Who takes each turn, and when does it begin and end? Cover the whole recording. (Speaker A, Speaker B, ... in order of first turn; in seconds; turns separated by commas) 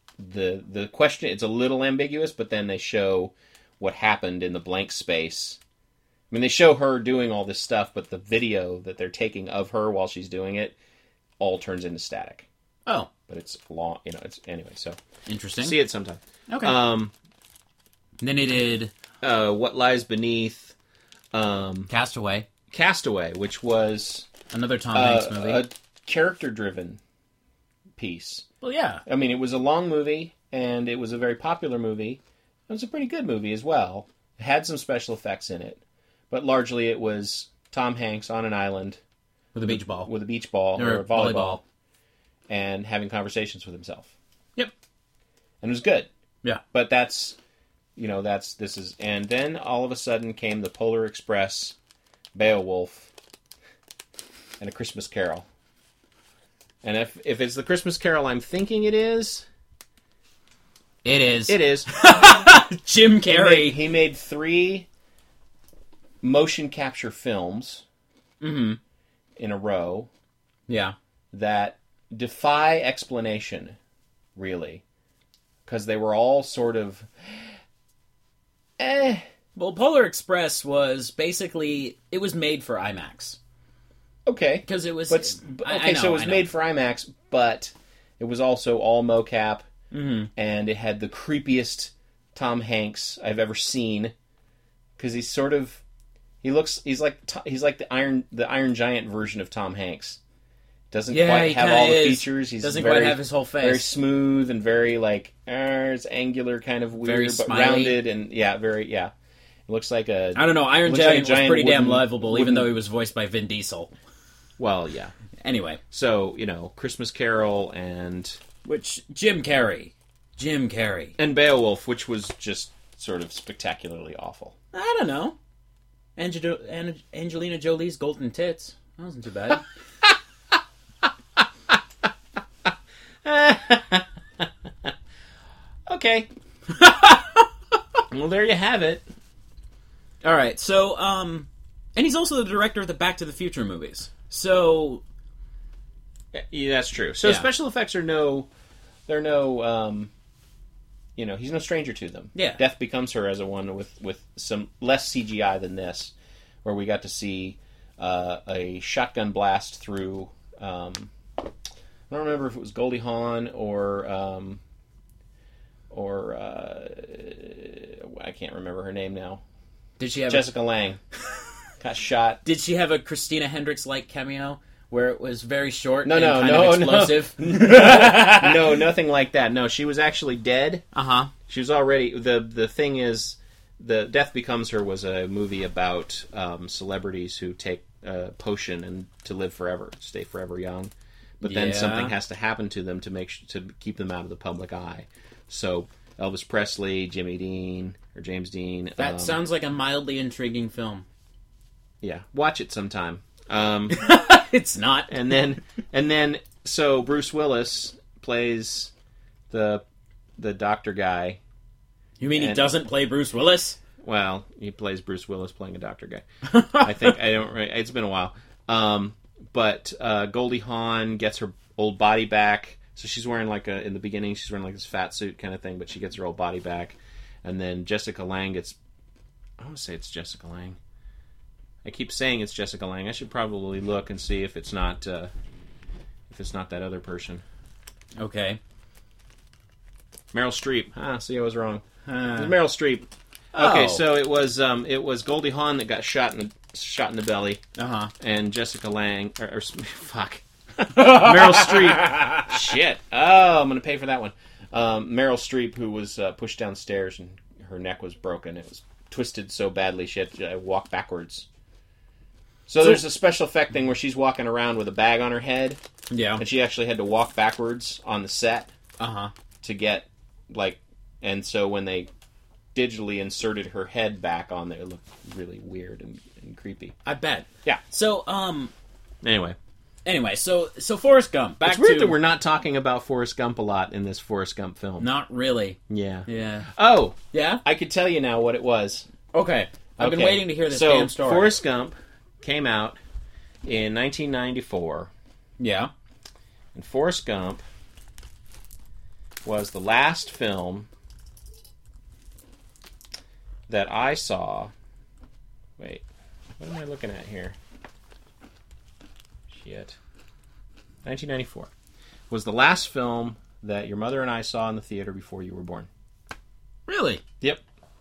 Speaker A: 0.2-5.6, Speaker A: 6.3-10.8, Speaker A: 11.4-12.5, Speaker A: 13.3-15.0, Speaker B: 15.3-15.8, Speaker A: 15.6-17.1, Speaker B: 16.5-16.8, Speaker B: 18.2-18.9, Speaker A: 19.2-20.8, Speaker A: 21.3-21.9, Speaker B: 21.9-22.5, Speaker A: 22.7-24.3, Speaker B: 24.5-25.6, Speaker A: 24.9-27.0, Speaker A: 28.0-28.5, Speaker B: 28.6-29.0, Speaker A: 29.1-39.0, Speaker B: 39.5-40.1, Speaker A: 39.6-41.6, Speaker B: 40.8-41.6, Speaker A: 42.5-44.1, Speaker A: 45.6-46.1, Speaker A: 46.7-47.4, Speaker A: 48.0-51.8, Speaker A: 52.3-53.1, Speaker A: 54.6-55.5, Speaker A: 56.8-59.5, Speaker B: 61.0-63.8, Speaker A: 61.5-61.9, Speaker A: 63.3-64.9, Speaker A: 66.2-67.8, Speaker B: 68.4-68.8, Speaker A: 69.4-70.1, Speaker B: 70.7-70.9, Speaker A: 71.3-73.8, Speaker A: 74.4-74.8, Speaker A: 75.7-77.5, Speaker A: 78.8-79.2, Speaker B: 79.5-83.4, Speaker A: 84.3-89.7, Speaker B: 84.7-86.5, Speaker B: 89.9-90.3, Speaker A: 90.4-94.1, Speaker A: 95.0-95.8, Speaker A: 96.4-100.2, Speaker A: 100.9-109.1, Speaker B: 101.1-103.9, Speaker B: 107.0-108.0, Speaker A: 109.7-112.7, Speaker B: 110.3-113.9, Speaker A: 114.6-115.1, Speaker B: 115.4-115.8, Speaker A: 115.9-118.4, Speaker B: 118.6-121.2, Speaker A: 121.2-124.5, Speaker B: 124.7-125.4, Speaker B: 126.2-129.7, Speaker A: 133.2-134.9, Speaker A: 135.9-136.3, Speaker B: 136.7-137.5, Speaker A: 138.1-139.1, Speaker B: 140.2-145.0, Speaker A: 146.3-148.5, Speaker A: 149.1-150.1, Speaker A: 151.2-161.1, Speaker B: 152.3-152.6, Speaker A: 162.1-164.6, Speaker A: 165.9-169.4, Speaker B: 170.0-170.5, Speaker A: 170.3-171.0, Speaker A: 171.8-172.4, Speaker B: 172.4-178.8, Speaker A: 176.1-180.8, Speaker B: 180.9-181.3, Speaker A: 181.5-199.4, Speaker B: 191.4-192.1, Speaker B: 199.0-201.1, Speaker A: 202.0-204.1, Speaker B: 203.9-205.2, Speaker A: 205.1-208.9, Speaker A: 209.5-209.8, Speaker A: 210.4-211.4, Speaker B: 212.2-213.8, Speaker A: 212.3-212.7, Speaker A: 214.0-228.8, Speaker B: 216.5-217.1, Speaker A: 229.6-230.8, Speaker A: 231.8-235.3, Speaker A: 236.3-237.4, Speaker B: 238.2-238.6, Speaker A: 240.3-241.8, Speaker B: 242.1-242.6, Speaker A: 242.4-247.6, Speaker B: 243.6-244.1, Speaker B: 247.8-248.1, Speaker A: 248.2-261.5, Speaker B: 250.9-252.5, Speaker A: 262.7-265.8, Speaker B: 266.1-266.4, Speaker A: 266.4-268.7, Speaker B: 269.0-269.3, Speaker A: 269.6-272.1, Speaker A: 272.7-276.9, Speaker B: 277.1-278.7, Speaker A: 279.2-279.6, Speaker B: 280.1-282.2, Speaker A: 281.6-285.1, Speaker B: 285.0-286.7, Speaker A: 285.9-289.1, Speaker B: 287.3-287.6, Speaker B: 289.3-291.6, Speaker A: 290.0-293.0, Speaker A: 293.6-295.1, Speaker B: 295.6-295.9, Speaker A: 296.7-297.6, Speaker A: 299.4-300.9, Speaker A: 303.7-304.7, Speaker A: 305.8-306.1, Speaker A: 306.6-307.6, Speaker A: 309.5-310.0, Speaker A: 311.1-311.7, Speaker A: 312.3-315.9, Speaker B: 316.9-317.2